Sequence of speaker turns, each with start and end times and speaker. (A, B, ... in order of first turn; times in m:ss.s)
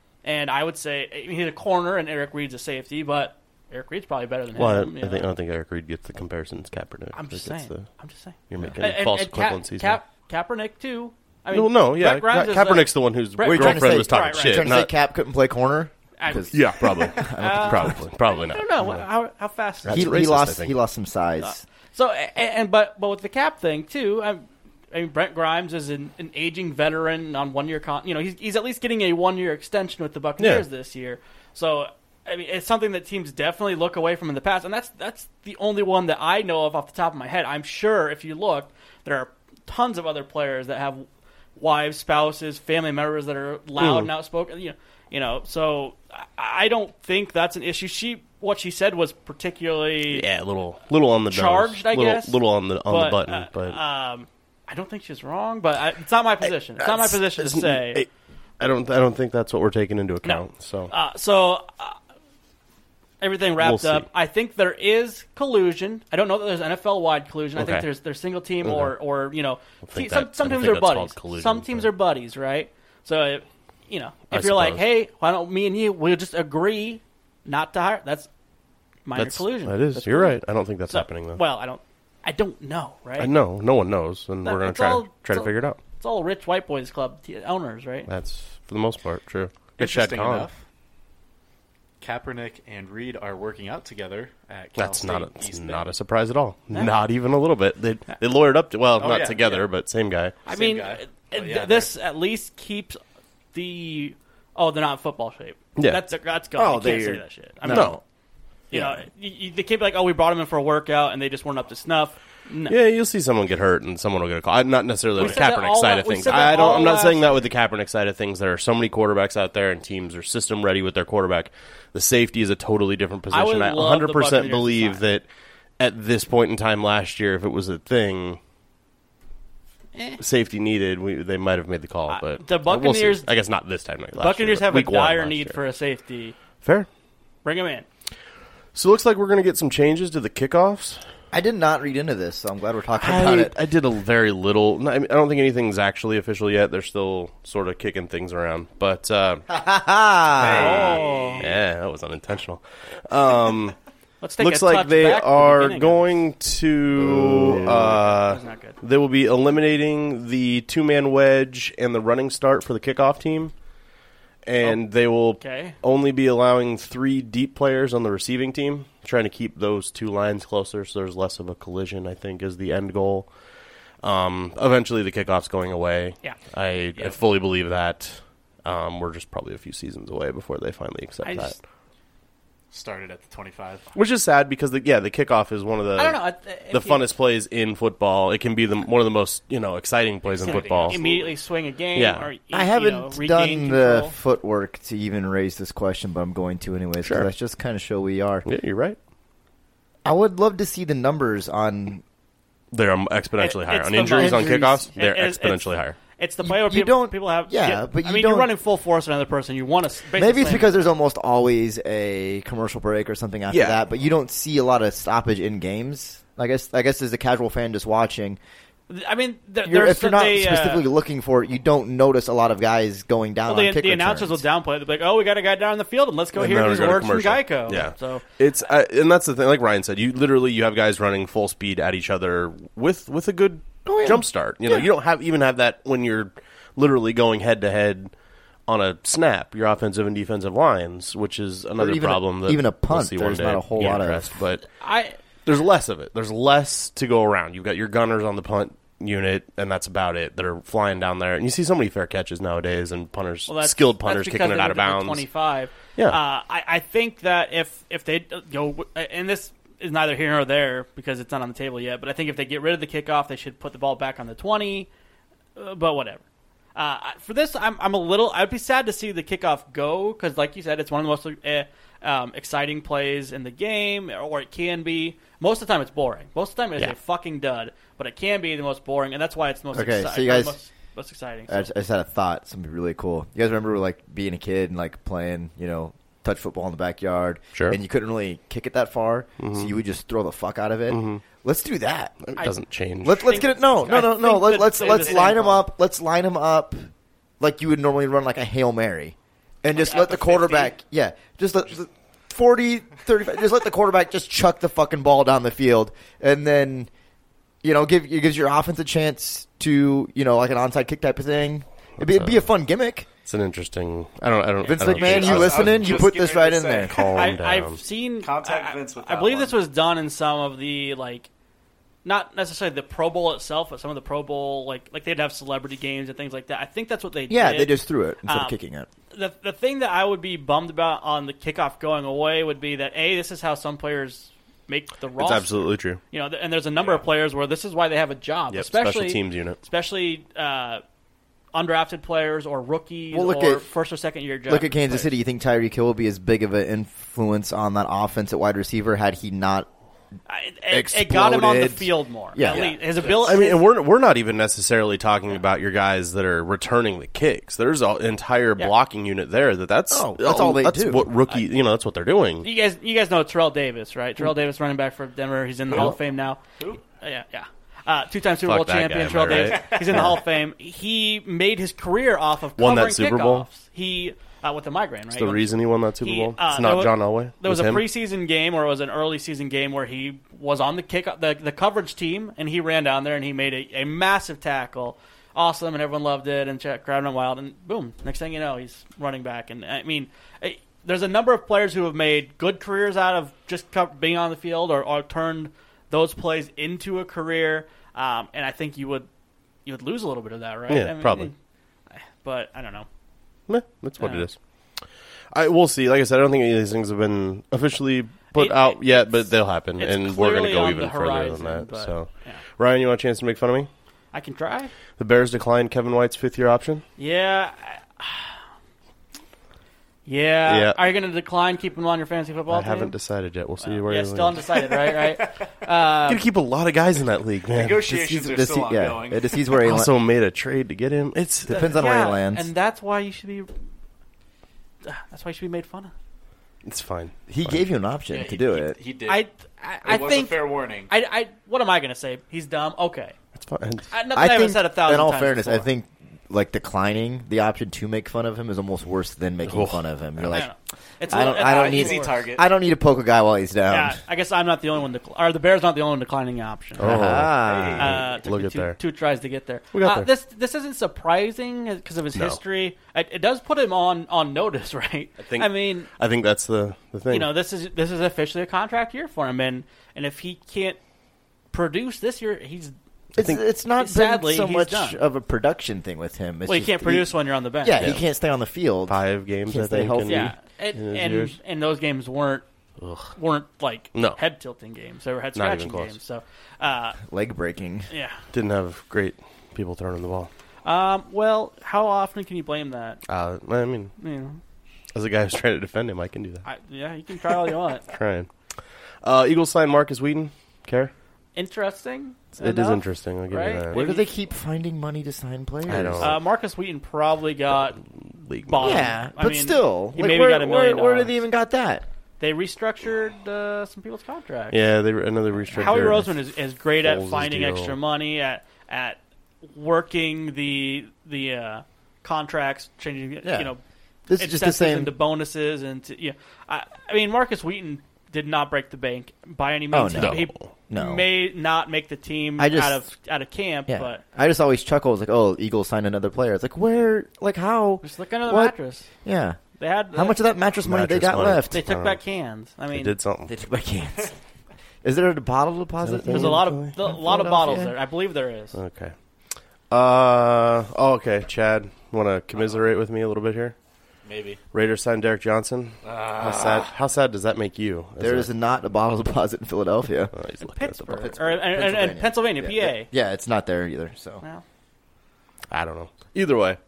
0:00.2-0:05.3 A
0:04.6-0:07.9 B
0:07.1-0:14.8 A
0:08.5-0:10.0 B
0:11.5-0:14.9 B
0:13.4-0:18.0 C
0:16.2-0:20.2 A
0:16.5-0:19.0 B
0:19.8-0:20.8 B
0:19.9-0:21.6 C
0:21.4-0:50.3 A
0:30.4-0:30.6 B
0:43.8-0:44.1 B
0:50.1-0:53.8 B
0:51.3-0:58.0 A
0:56.8-1:00.9 B
1:00.2-1:02.0 A
1:03.2-1:18.3 A
1:03.6-1:04.1 B
1:07.6-1:07.9 B
1:08.6-1:08.9 B
1:09.8-1:11.9 B
1:14.3-1:14.8 B
1:19.0-1:23.3 A
1:19.2-1:21.4 B
1:23.2-1:25.8 B
1:24.4-1:28.1 A
1:28.1-1:30.5 B
1:29.8-1:30.6 D
1:32.0-1:35.9 D
1:34.8-1:40.4 B
1:39.0-1:39.7 D
1:40.4-1:41.9 D
1:40.5-1:43.0 A
1:43.5-1:48.0 A
1:45.8-1:46.0 B
1:46.6-1:48.0 C
1:47.7-1:48.0 B
1:48.7-1:52.8 A
1:52.7-2:05.3 B
1:55.2-1:57.3 A
2:03.3-2:05.0 A
2:05.8-2:08.4 B
2:10.0-2:10.2 A
2:10.2-2:15.6 B
2:12.1-2:13.3 A
2:14.2-2:16.4 A
2:16.6-2:16.9 B
2:17.4-2:17.9 A
2:18.7-2:21.0 B
2:21.3-2:23.6 C
2:23.0-2:29.4 B
2:29.5-2:31.0 C
2:30.4-2:30.9 B
2:30.4-2:31.5 D
2:30.5-2:31.5 A
2:31.4-2:33.8 B
2:34.2-2:36.1 A
2:34.4-2:43.5 B
2:37.0-2:38.1 C
2:38.1-2:38.8 A
2:44.4-2:53.3 B
2:45.4-2:45.8 A
2:54.0-3:01.6 B
3:01.2-3:01.6 A
3:02.7-3:03.9 D
3:03.9-3:06.2 B
3:06.0-3:07.0 A
3:06.7-3:11.0 B
3:10.2-3:11.4 D
3:10.4-3:14.1 A
3:12.0-3:12.3 B
3:12.5-3:18.5 C
3:17.0-3:17.3 B
3:18.4-3:19.0 B
3:20.0-3:22.0 C
3:22.7-3:26.0 B
3:23.4-3:30.9 A
3:24.0-3:24.8 C
3:26.4-3:28.5 C
3:30.2-3:38.4 C
3:33.5-3:33.8 B
3:38.9-3:40.9 A
3:39.6-3:44.4 C
3:43.5-3:48.2 A
3:46.4-3:58.1 B
3:53.9-3:54.9 C
3:58.7-4:04.7 B
4:01.8-4:04.3 C
4:04.8-4:05.2 A
4:05.4-4:15.3 B
4:13.5-4:24.9 A
4:25.6-4:26.2 A
4:26.8-4:41.7 A
4:39.7-4:40.6 C
4:41.5-4:52.3 C
4:49.4-4:49.8 B
4:50.9-4:51.2 B
4:52.2-4:53.4 B
4:53.0-4:56.9 C
4:53.2-4:55.7 A
4:57.4-5:06.9 C
4:59.7-5:00.7 A
5:07.6-5:13.1 C
5:12.0-5:12.4 B
5:13.3-5:16.0 B
5:14.7-5:17.0 C
5:14.8-5:17.3 D
5:16.9-5:17.8 B
5:17.1-5:21.3 A
5:18.2-5:19.6 D
5:22.0-5:28.6 A
5:27.3-5:28.9 C
5:29.1-5:40.8 A
5:35.2-5:36.0 B
5:38.5-5:39.6 B
5:41.5-5:45.1 A
5:43.1-5:43.7 C
5:44.5-5:49.7 C
5:50.3-5:53.6 A
5:50.7-5:52.8 C
5:53.0-6:02.5 B
5:59.9-6:01.1 C
6:02.4-6:39.1 A
6:08.5-6:09.8 B
6:09.5-6:10.1 D
6:09.9-6:10.2 C
6:12.6-6:13.5 B
6:15.1-6:17.8 B
6:39.6-6:41.4 A
6:40.7-6:41.3 B
6:41.9-6:42.9 A
6:43.5-6:44.4 B
6:44.0-6:44.3 A
6:45.3-6:53.7 B
6:48.4-6:52.4 A
6:54.1-6:54.7 A
6:55.0-6:56.8 B
6:57.0-6:58.4 A
7:00.1-7:03.0 A
7:00.5-7:00.8 B
7:02.5-7:04.4 B
7:03.6-7:06.2 A
7:04.5-7:05.5 D
7:06.1-7:07.9 B
7:07.5-7:09.6 D
7:07.9-7:09.9 C
7:09.6-7:11.7 B
7:11.5-7:12.5 C
7:11.5-7:13.5 A
7:14.8-7:15.9 A
7:16.6-7:17.6 B
7:17.3-7:18.8 C
7:18.1-7:19.3 D
7:19.1-7:23.2 A
7:19.8-7:20.9 D
7:23.4-7:23.9 B
7:23.9-7:25.7 A
7:24.1-7:30.5 C
7:29.5-7:30.4 B
7:30.3-7:32.2 A
7:31.1-7:34.0 C
7:31.1-7:32.5 D
7:33.7-7:36.9 A
7:36.8-7:38.8 B
7:36.8-7:38.0 C
7:37.8-7:45.9 A
7:39.7-7:40.1 B
7:45.2-7:47.3 B
7:47.1-7:50.8 A
7:51.5-7:52.7 A
7:53.2-7:57.1 C
7:53.8-7:55.0 A
7:56.5-7:57.9 A
7:57.6-8:00.3 C
7:58.9-8:01.4 B
8:00.1-8:02.4 A
8:02.8-8:03.1 B
8:03.2-8:07.0 A
8:03.9-8:04.2 B
8:05.4-8:06.0 B
8:07.1-8:07.9 C
8:07.9-8:08.2 A
8:08.3-8:10.3 B
8:10.6-8:13.0 A
8:13.1-8:13.9 B
8:14.0-8:14.4 A
8:14.9-8:16.5 B
8:16.4-8:17.8 A
8:17.9-8:18.3 B
8:19.0-8:20.9 B
8:21.4-8:24.1 A
8:22.4-8:23.8 B
8:23.7-8:26.1 C
8:25.7-8:26.2 B
8:26.0-8:27.8 A
8:27.7-8:28.9 B
8:28.5-8:31.1 A
8:28.6-8:31.8 C
8:32.2-8:34.6 A
8:34.5-8:36.2 B
8:35.5-8:43.6 A
8:36.8-8:37.8 B
8:43.2-8:43.5 C
8:44.1-8:44.9 C
8:44.2-8:54.0 A
8:49.7-8:51.1 C
8:49.9-8:50.5 B
8:52.4-8:52.8 C
8:53.7-8:59.4 C
8:57.8-8:58.9 A
8:59.6-9:00.2 A
8:59.9-9:01.6 C
9:00.6-9:02.0 B
9:01.5-9:02.9 A
9:02.7-9:03.3 B
9:03.3-9:04.2 C
9:04.8-9:07.8 C
9:05.8-9:06.8 B
9:06.1-9:08.6 A
9:08.5-9:08.9 B
9:09.7-9:13.6 B
9:12.4-9:12.6 D
9:14.0-9:14.4 D
9:14.5-9:18.3 B
9:15.8-9:16.7 D
9:18.0-9:20.1 C
9:20.1-9:21.1 B
9:20.4-9:22.9 A
9:20.9-9:24.2 C
9:25.5-9:26.6 B